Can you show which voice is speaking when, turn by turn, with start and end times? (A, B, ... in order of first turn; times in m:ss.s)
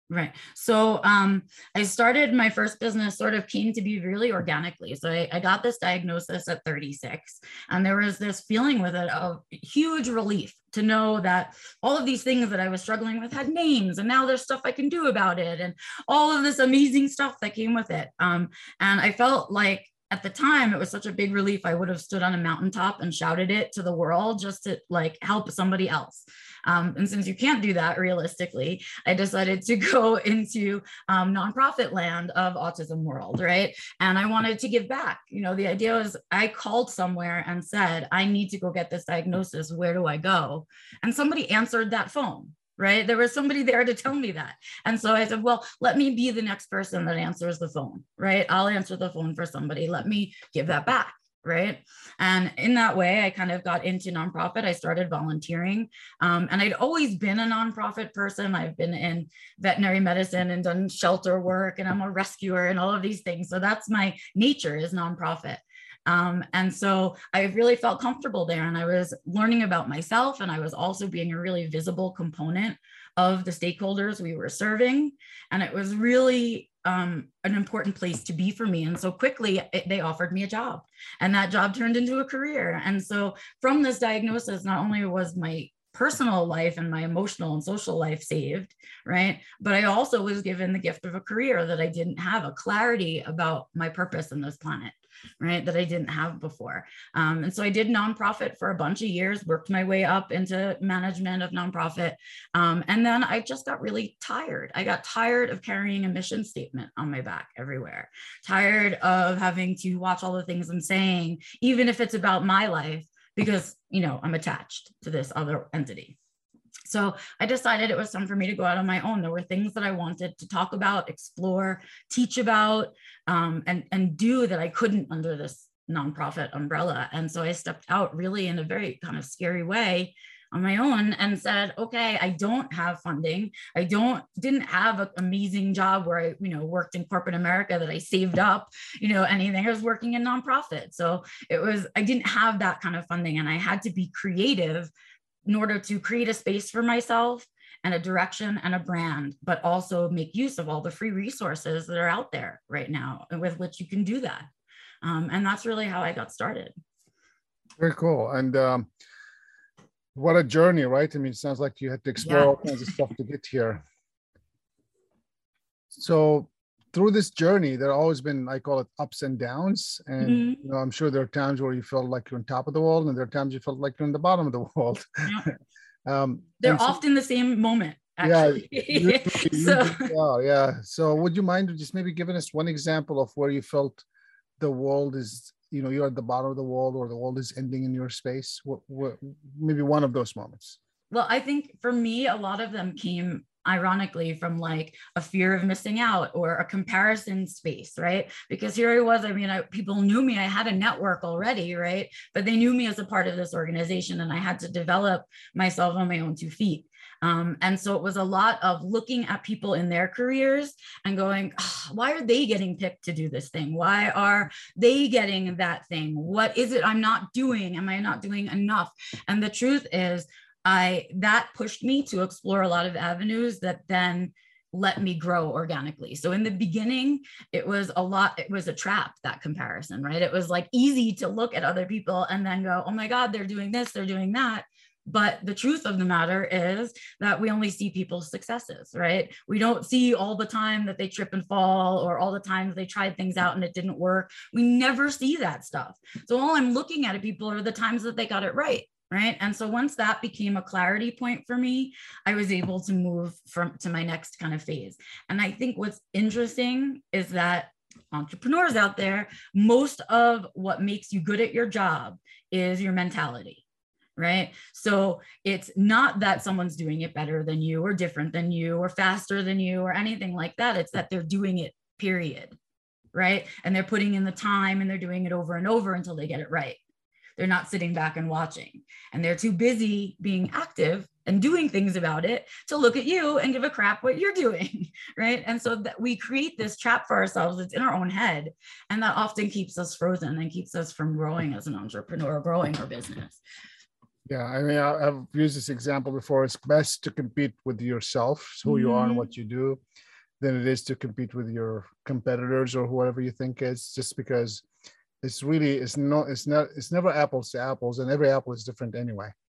0:00.1-1:56.2 A
1:56.9-2:24.9 A
2:25.4-2:34.5 A
2:35.0-2:36.7 A
2:37.8-2:38.9 B
2:40.1-2:43.8 B
2:42.2-2:42.9 A
2:45.9-2:55.5 B
2:50.2-2:50.6 A
2:56.0-2:57.0 B
2:56.6-3:00.1 A
2:58.2-3:04.0 B
3:04.6-3:10.8 B
3:11.1-4:23.6 A
4:24.2-4:32.6 A
4:33.1-4:36.8 A
4:37.4-4:53.4 A
4:54.3-4:59.8 B
4:58.6-4:59.3 A
5:00.4-5:04.6 B
5:05.2-5:09.3 B